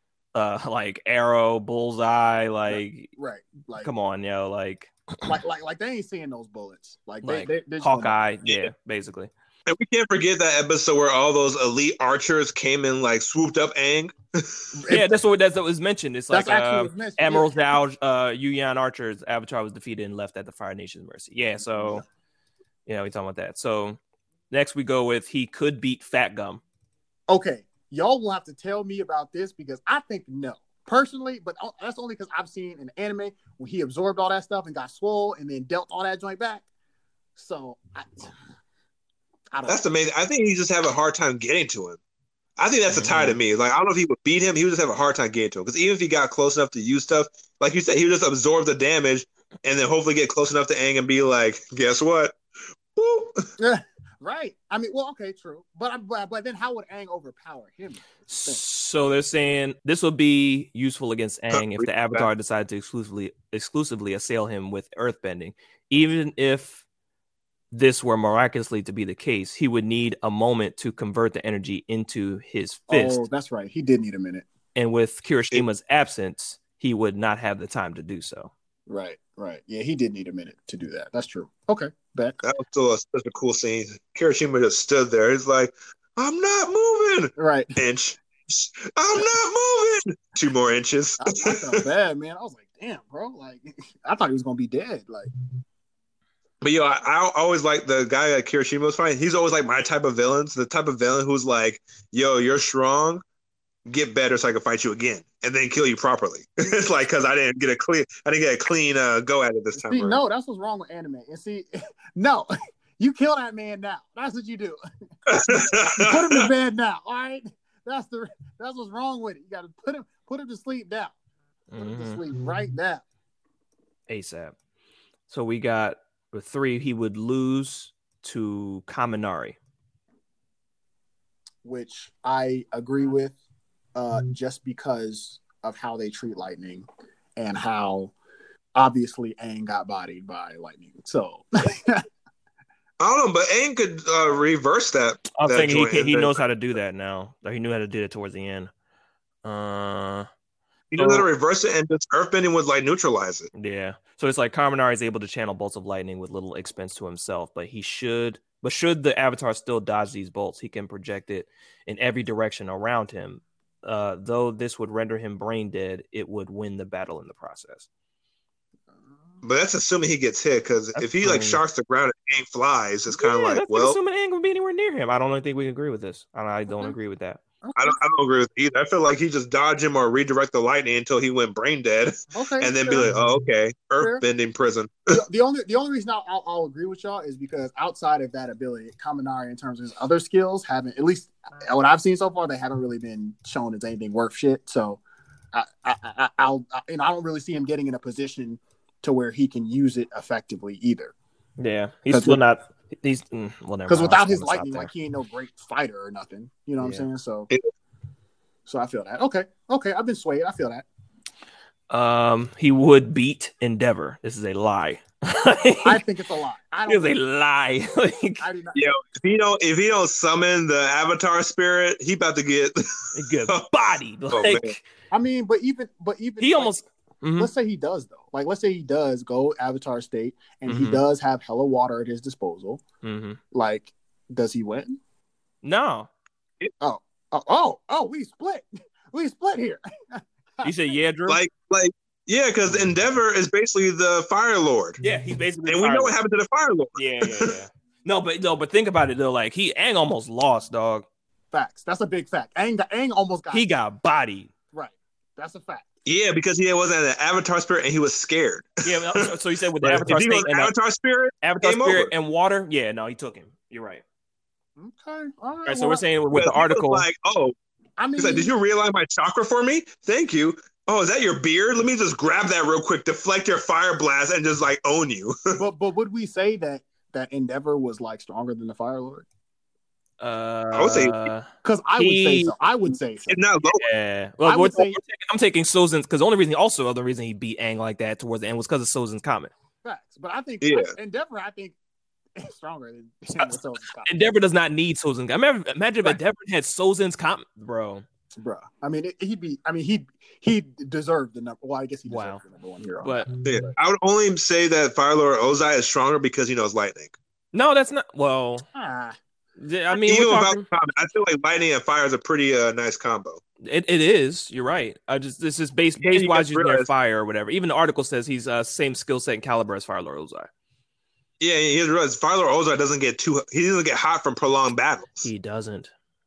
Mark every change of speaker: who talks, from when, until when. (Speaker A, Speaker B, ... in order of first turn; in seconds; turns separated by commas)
Speaker A: 0.3-3.1, Speaker B: 2.7-3.9, Speaker A: 3.8-5.3, Speaker B: 5.2-8.1, Speaker A: 7.2-9.3, Speaker C: 8.4-8.7, Speaker C: 9.7-14.7, Speaker B: 14.8-15.1, Speaker A: 14.9-22.0, Speaker B: 16.3-17.5, Speaker B: 21.8-22.0, Speaker A: 22.9-24.0, Speaker A: 24.5-26.6, Speaker B: 27.3-36.6, Speaker B: 37.4-38.3, Speaker B: 39.5-39.8, Speaker C: 39.7-42.0, Speaker C: 42.6-52.4, Speaker A: 42.9-43.4, Speaker C: 52.9-53.5, Speaker B: 53.6-58.6, Speaker A: 58.3-66.8, Speaker C: 61.5-62.2, Speaker A: 67.7-73.2, Speaker B: 72.9-74.5, Speaker A: 74.7-78.5, Speaker B: 78.9-82.4, Speaker C: 82.4-91.8, Speaker B: 87.4-87.8, Speaker B: 91.2-95.3, Speaker C: 96.6-103.2, Speaker C: 103.8-110.2, Speaker B: 109.7-121.2, Speaker C: 115.3-116.5, Speaker A: 121.7-122.2, Speaker B: 121.8-123.0, Speaker A: 124.1-124.5, Speaker A: 125.3-129.6, Speaker B: 131.6-133.3, Speaker B: 133.9-138.1, Speaker B: 138.7-142.0, Speaker C: 143.0-146.4, Speaker A: 145.3-148.7, Speaker A: 149.4-150.3, Speaker C: 150.9-153.5, Speaker A: 151.0-151.3, Speaker A: 153.5-167.9, Speaker C: 169.4-174.0, Speaker A: 170.9-171.6, Speaker A: 173.2-177.4, Speaker B: 176.7-176.9, Speaker B: 177.6-178.0, Speaker C: 177.8-185.2, Speaker B: 182.3-183.1, Speaker B: 185.1-195.0, Speaker B: 195.5-201.1, Speaker A: 201.6-204.9, Speaker B: 202.1-202.4, Speaker B: 203.9-207.5, Speaker A: 206.8-207.1, Speaker B: 208.7-210.8, Speaker A: 211.9-216.0, Speaker B: 215.8-217.2, Speaker A: 216.9-218.4, Speaker B: 218.4-218.8, Speaker C: 218.7-223.6, Speaker A: 223.1-224.8, Speaker C: 224.3-224.7, Speaker B: 225.1-226.8, Speaker A: 226.4-227.5, Speaker B: 227.4-232.8, Speaker A: 230.7-231.0, Speaker A: 233.0-233.4, Speaker B: 233.5-235.0, Speaker A: 235.6-236.1, Speaker B: 236.8-240.7, Speaker A: 240.6-241.4, Speaker C: 241.3-245.0, Speaker A: 245.0-246.2, Speaker C: 245.7-247.5, Speaker A: 246.9-251.0, Speaker B: 251.5-253.6, Speaker A: 253.5-254.5, Speaker B: 254.7-255.9, Speaker C: 256.1-259.3, Speaker A: 258.8-260.7, Speaker C: 259.8-262.1, Speaker A: 261.4-264.0, Speaker B: 264.8-266.0, Speaker A: 265.6-267.1, Speaker C: 266.3-267.5, Speaker B: 268.0-268.5, Speaker C: 268.1-275.6, Speaker B: 275.6-279.2, Speaker A: 280.2-282.5, Speaker C: 280.7-281.3, Speaker B: 281.6-283.4, Speaker C: 283.3-283.8, Speaker A: 283.7-289.5, Speaker B: 284.4-285.0, Speaker B: 289.8-291.8, Speaker C: 290.6-290.9, Speaker B: 292.4-294.3, Speaker A: 294.1-298.0, Speaker B: 298.4-303.2, Speaker A: 302.1-302.4, Speaker A: 303.0-303.3, Speaker C: 303.4-307.2, Speaker A: 307.5-308.7, Speaker B: 308.7-309.2, Speaker A: 309.6-310.6, Speaker C: 310.0-313.4, Speaker A: 313.6-320.5, Speaker C: 316.0-316.9, Speaker C: 321.4-325.3, Speaker A: 325.2-325.9